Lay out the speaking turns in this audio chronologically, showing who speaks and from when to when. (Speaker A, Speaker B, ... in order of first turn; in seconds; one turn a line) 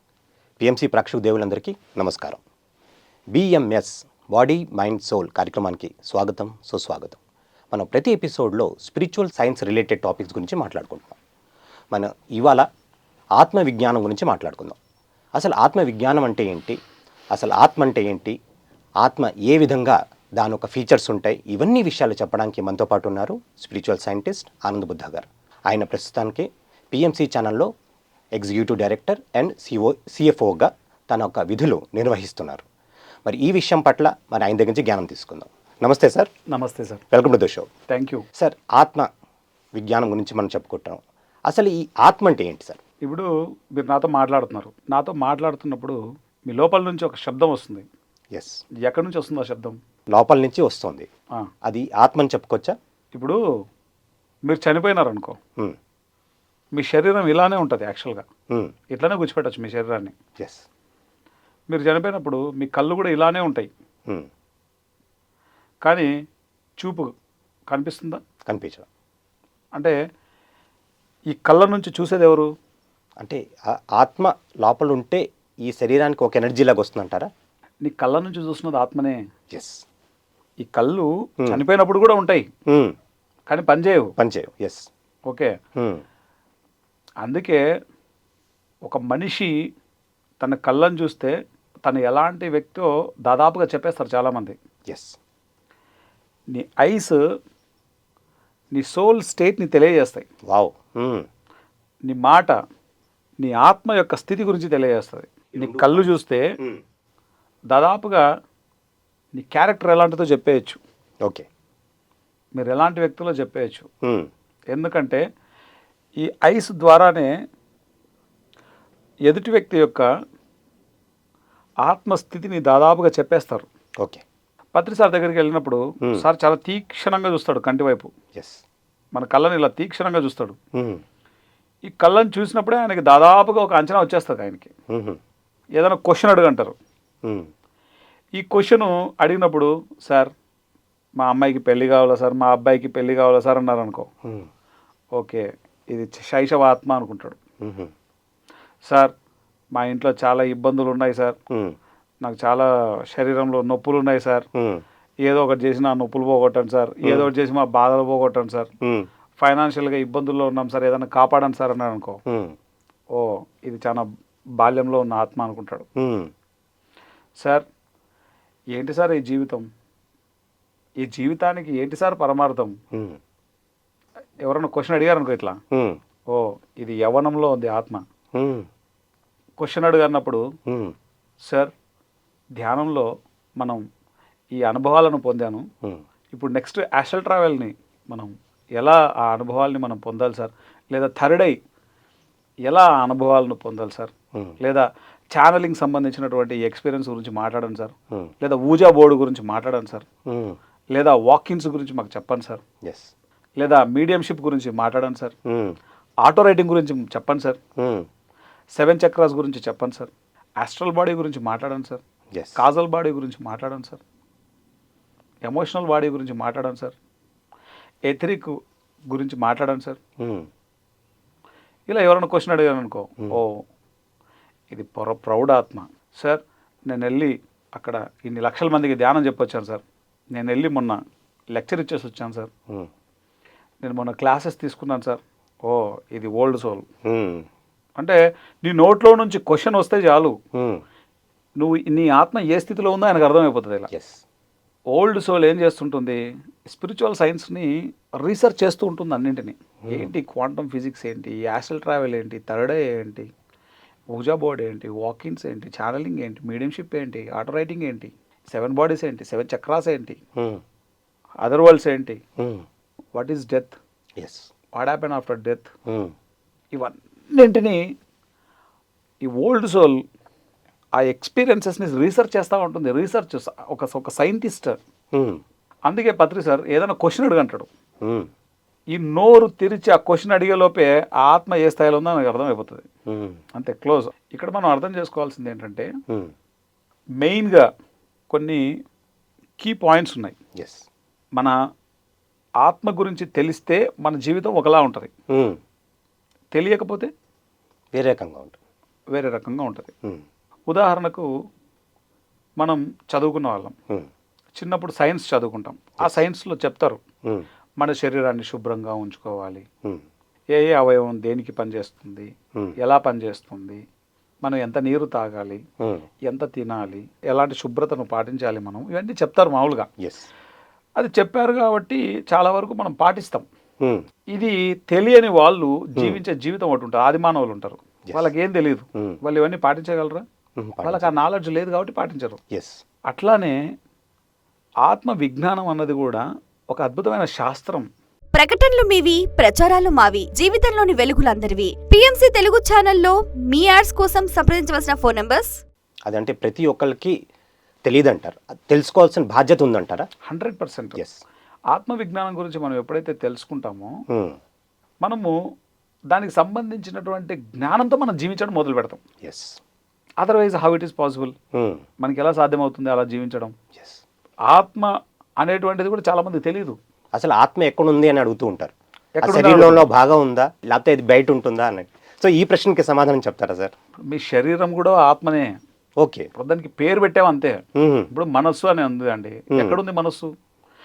Speaker A: 0.6-2.4
Speaker A: 3.3-7.2
Speaker A: 7.7-11.2
Speaker A: 11.9-12.7
Speaker A: 13.4-14.8
Speaker A: 15.3-16.8
Speaker A: 17.3-18.4
Speaker A: 19.0-27.7
Speaker A: 28.4-32.6
Speaker A: 33.2-36.3
Speaker B: 36.5-37.0
Speaker A: 37.1-37.7
Speaker B: 37.9-38.2
Speaker A: 38.3-39.1
Speaker A: 39.7-42.8
Speaker B: 43.0-47.9
Speaker A: 48.3-48.6
Speaker B: 48.8-49.8
Speaker A: 50.1-51.1
Speaker A: 51.6-52.7
Speaker B: 54.5-55.4
Speaker B: 56.7-58.2
Speaker B: 58.9-60.1
Speaker A: 60.4-60.6
Speaker B: 61.7-63.7
Speaker B: 65.8-66.1
Speaker B: 66.8-67.1
Speaker B: 67.7-68.2
Speaker A: 68.5-68.9
Speaker B: 71.3-72.5
Speaker A: 73.2-77.3
Speaker B: 77.8-79.2
Speaker A: 79.5-79.8
Speaker B: 80.6-82.5
Speaker A: 82.7-82.9
Speaker B: 83.5-84.1
Speaker A: 84.2-84.9
Speaker B: 85.3-85.5
Speaker A: 85.8-86.0
Speaker B: 87.2-87.6
Speaker B: 88.9-89.7
Speaker B: 90.4-94.6
Speaker A: 94.9-95.2
Speaker B: 96.5-97.2
Speaker B: 98.7-100.3
Speaker A: 100.5-101.3
Speaker B: 102.1-102.6
Speaker B: 103.4-106.5
Speaker A: 105.5-106.1
Speaker B: 107.7-108.2
Speaker B: 109.3-110.8
Speaker B: 112.6-113.9
Speaker A: 114.0-114.3
Speaker B: 114.7-115.2
Speaker B: 116.2-117.3
Speaker B: 119.3-120.1
Speaker B: 121.8-123.7
Speaker B: 124.7-128.1
Speaker A: 128.3-128.6
Speaker B: 129.1-130.6
Speaker A: 130.8-131.0
Speaker B: 131.9-134.7
Speaker A: 134.9-135.2
Speaker B: 135.8-136.8
Speaker B: 138.4-140.3
Speaker B: 141.2-144.1
Speaker B: 145.2-147.4
Speaker A: 147.6-147.9
Speaker B: 148.9-149.1
Speaker B: 149.8-151.4
Speaker A: 151.5-151.7
Speaker B: 152.2-154.5
Speaker A: 154.5-154.8
Speaker B: 155.2-158.7
Speaker A: 157.0-157.3
Speaker A: 158.8-159.1
Speaker B: 159.4-162.2
Speaker A: 162.3-162.6
Speaker B: 163.1-165.8
Speaker A: 166.0-166.3
Speaker B: 167.4-167.6
Speaker B: 168.7-169.7
Speaker B: 171.0-172.8
Speaker A: 172.9-173.2
Speaker B: 174.4-175.6
Speaker A: 175.7-176.0
Speaker B: 176.3-178.0
Speaker A: 178.3-178.7
Speaker B: 179.6-180.4
Speaker A: 180.7-180.9
Speaker B: 182.6-183.1
Speaker B: 184.6-185.7
Speaker B: 186.3-191.6
Speaker B: 192.7-200.1
Speaker A: 200.3-200.6
Speaker B: 200.9-202.6
Speaker A: 202.8-203.1
Speaker B: 203.6-205.3
Speaker A: 205.5-205.8
Speaker B: 206.2-207.6
Speaker A: 207.8-208.1
Speaker B: 208.7-212.0
Speaker A: 212.3-212.6
Speaker B: 212.6-214.0
Speaker B: 215.4-216.9
Speaker B: 218.1-218.6
Speaker B: 219.1-220.0
Speaker A: 220.2-220.5
Speaker B: 221.9-223.6
Speaker B: 224.7-229.8
Speaker B: 230.3-231.0
Speaker B: 231.5-232.5
Speaker B: 233.8-236.8
Speaker A: 237.0-237.4
Speaker B: 238.0-240.4
Speaker A: 240.5-240.8
Speaker B: 241.6-243.9
Speaker A: 243.9-244.2
Speaker B: 244.9-253.3
Speaker A: 249.8-250.1
Speaker B: 254.1-260.2
Speaker A: 260.4-260.6
Speaker B: 261.4-262.2
Speaker A: 262.4-262.6
Speaker B: 263.1-263.8
Speaker A: 264.2-264.5
Speaker B: 264.7-265.7
Speaker A: 265.9-266.1
Speaker B: 266.7-267.8
Speaker B: 269.2-270.0
Speaker B: 271.0-274.8
Speaker A: 275.1-275.4
Speaker B: 275.9-277.7
Speaker A: 278.0-278.3
Speaker B: 278.9-282.8
Speaker A: 283.1-283.4
Speaker B: 283.5-285.9
Speaker B: 287.2-287.7
Speaker B: 288.3-288.6
Speaker B: 289.6-290.4
Speaker A: 290.6-290.9
Speaker B: 292.6-295.1
Speaker A: 295.3-295.6
Speaker B: 296.5-297.1
Speaker A: 297.9-298.5
Speaker B: 299.1-299.9
Speaker B: 300.7-301.3
Speaker B: 302.6-303.7
Speaker B: 304.6-307.0
Speaker B: 307.8-309.7
Speaker B: 310.5-313.8
Speaker B: 314.4-315.6
Speaker B: 316.2-319.9
Speaker A: 320.0-320.3
Speaker B: 321.0-323.4
Speaker B: 324.3-330.2
Speaker A: 328.1-328.3
Speaker A: 330.6-331.1
Speaker B: 330.8-332.4
Speaker A: 332.5-332.8
Speaker B: 333.1-333.6
Speaker B: 334.9-337.9
Speaker C: 338.3-345.6
Speaker A: 346.1-347.1
Speaker A: 347.8-350.1
Speaker B: 350.3-351.0
Speaker A: 350.9-351.2
Speaker B: 351.7-353.9
Speaker A: 354.1-354.4
Speaker B: 355.0-355.3
Speaker B: 356.1-359.0
Speaker A: 359.2-359.6
Speaker B: 360.2-361.3
Speaker A: 361.5-361.8
Speaker B: 362.0-363.5
Speaker A: 363.7-364.0
Speaker B: 364.5-366.8
Speaker A: 367.1-373.7
Speaker B: 369.2-369.8
Speaker B: 374.1-375.5
Speaker A: 376.0-376.3
Speaker B: 376.3-380.3
Speaker A: 377.8-378.1
Speaker A: 379.5-379.8